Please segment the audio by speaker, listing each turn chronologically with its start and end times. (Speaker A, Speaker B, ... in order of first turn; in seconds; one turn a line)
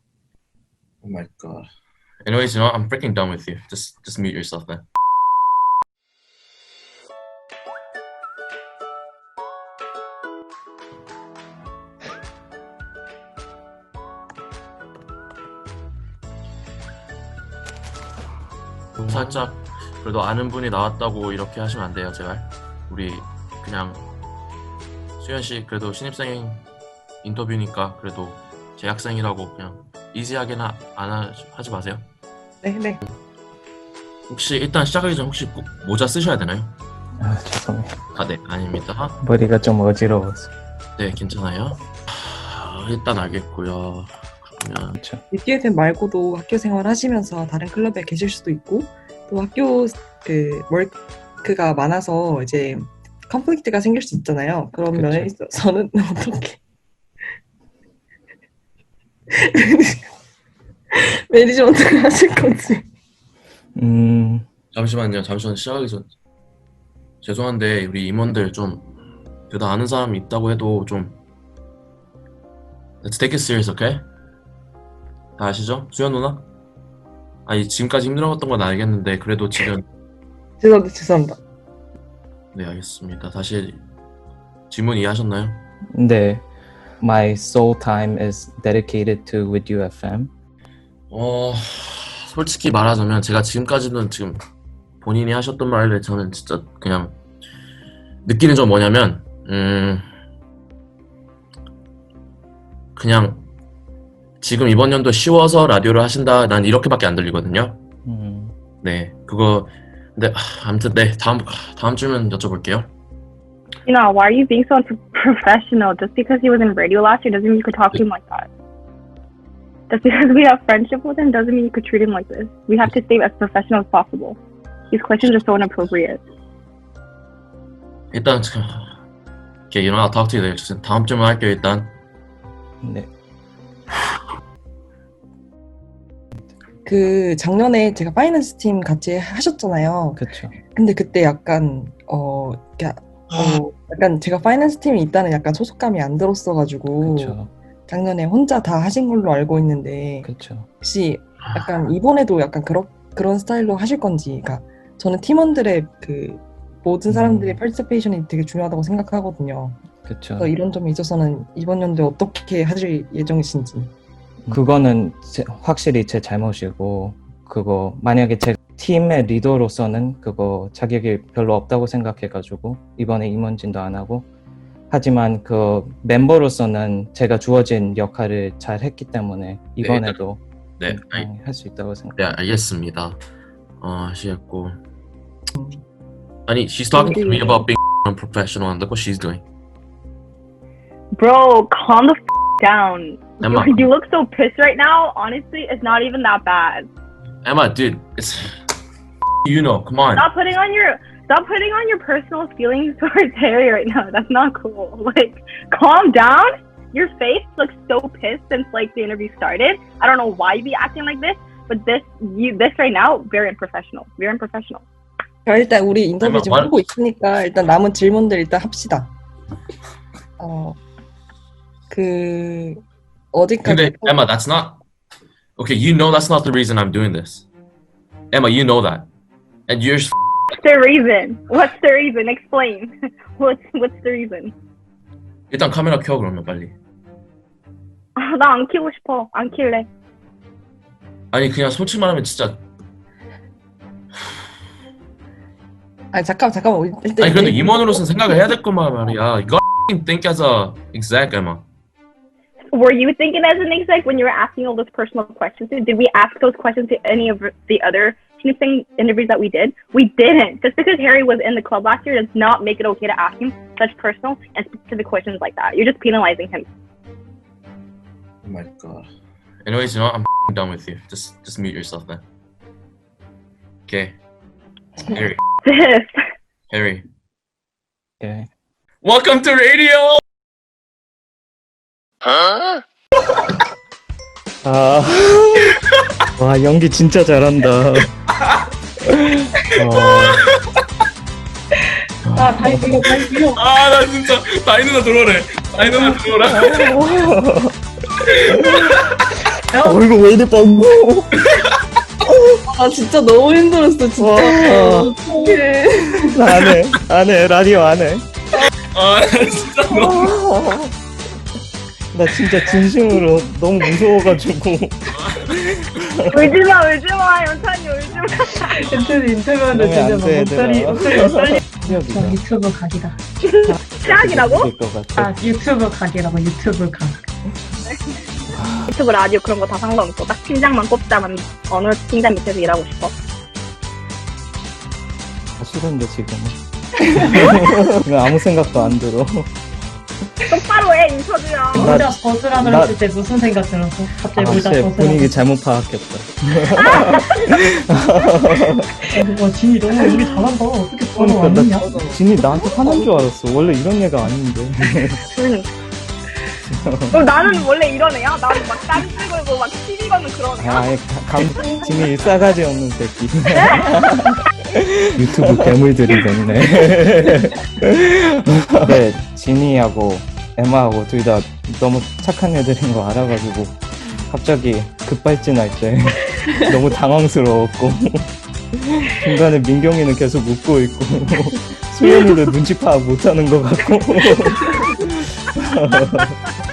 Speaker A: 1.0-1.7
Speaker A: 2.2-4.8
Speaker B: 19.0-19.4
Speaker A: 19.0-24.1
Speaker A: 25.2-26.6
Speaker A: 27.2-32.0
Speaker C: 32.6-33.0
Speaker A: 34.3-36.8
Speaker B: 37.2-38.0
Speaker A: 38.1-39.2
Speaker B: 39.2-40.5
Speaker A: 41.0-45.0
Speaker B: 44.9-45.2
Speaker C: 45.3-56.6
Speaker B: 54.9-55.3
Speaker C: 59.4-60.1
Speaker C: 60.9-62.8
Speaker B: 63.8-64.5
Speaker A: 64.7-66.1
Speaker A: 67.2-68.9
Speaker A: 69.5-71.2
Speaker A: 73.0-74.0
Speaker A: 75.4-76.5
Speaker A: 77.5-79.8
Speaker C: 80.6-81.4
Speaker A: 82.5-83.8
Speaker A: 84.7-85.6
Speaker B: 85.9-86.5
Speaker B: 87.0-90.3
Speaker A: 91.1-94.4
Speaker A: 95.0-97.2
Speaker A: 98.2-100.1
Speaker A: 103.0-103.5
Speaker A: 104.4-107.8
Speaker B: 108.0-108.5
Speaker A: 108.8-112.9
Speaker D: 113.8-118.5
Speaker D: 119.9-124.4
Speaker D: 124.9-126.2
Speaker A: 128.1-129.0
Speaker A: 129.7-131.9
Speaker B: 132.8-133.1
Speaker C: 136.8-150.3
Speaker B: 140.2-140.6
Speaker B: 147.0-147.5
Speaker B: 150.2-150.7
Speaker C: 150.8-159.8
Speaker B: 157.1-157.6
Speaker B: 160.0-160.5
Speaker C: 160.4-163.9
Speaker B: 164.5-174.3
Speaker B: 174.9-182.2
Speaker A: 179.8-180.2
Speaker A: 180.8-181.3
Speaker A: 182.2-183.2
Speaker A: 183.8-184.8
Speaker C: 185.5-185.8
Speaker A: 186.5-189.4
Speaker D: 186.9-187.6
Speaker D: 191.1-196.9
Speaker A: 193.4-193.9
Speaker A: 197.4-198.5
Speaker A: 199.4-200.3
Speaker D: 200.2-214.8
Speaker C: 215.4-219.1
Speaker A: 216.2-216.8
Speaker C: 220.4-220.8
Speaker C: 221.9-222.8
Speaker C: 223.3-224.2
Speaker A: 223.6-224.8
Speaker A: 225.6-227.5
Speaker A: 228.3-229.1
Speaker A: 229.7-230.1
Speaker D: 230.5-234.5
Speaker A: 235.5-236.8
Speaker D: 238.2-239.9
Speaker A: 241.3-242.6
Speaker C: 246.1-248.4
Speaker A: 247.2-251.6
Speaker D: 252.7-266.7
Speaker A: 268.4-269.1
Speaker A: 269.6-272.2
Speaker A: 273.9-274.2
Speaker A: 275.0-275.4
Speaker D: 275.6-276.2
Speaker A: 276.7-277.1
Speaker B: 278.2-278.5
Speaker A: 279.0-280.2
Speaker A: 282.3-282.6
Speaker B: 284.6-285.7
Speaker B: 286.4-288.1
Speaker B: 289.0-290.4
Speaker A: 289.8-290.4
Speaker E: 292.3-293.6
Speaker B: 292.6-293.0
Speaker A: 293.5-297.1
Speaker B: 296.4-297.7
Speaker A: 298.2-299.2
Speaker E: 299.7-300.0
Speaker B: 299.8-301.3
Speaker C: 302.6-306.4
Speaker B: 304.2-305.1
Speaker B: 306.3-308.3
Speaker A: 308.9-310.3
Speaker B: 309.9-310.9
Speaker B: 312.1-316.5
Speaker A: 315.1-315.5
Speaker D: 316.3-318.9
Speaker E: 318.6-323.8
Speaker B: 319.7-322.4
Speaker D: 323.4-324.7
Speaker B: 324.0-325.4
Speaker E: 325.1-327.2
Speaker D: 328.9-333.1
Speaker B: 335.6-339.5
Speaker D: 340.5-342.0
Speaker B: 341.8-343.0
Speaker E: 341.8-345.4
Speaker B: 344.3-348.9
Speaker D: 346.7-347.6
Speaker E: 349.1-351.9
Speaker B: 351.1-355.2
Speaker C: 351.8-352.2
Speaker D: 355.3-355.7
Speaker B: 356.7-357.3
Speaker D: 357.1-360.9
Speaker B: 360.6-364.4
Speaker D: 363.5-364.1
Speaker B: 365.1-378.3
Speaker B: 379.1-386.3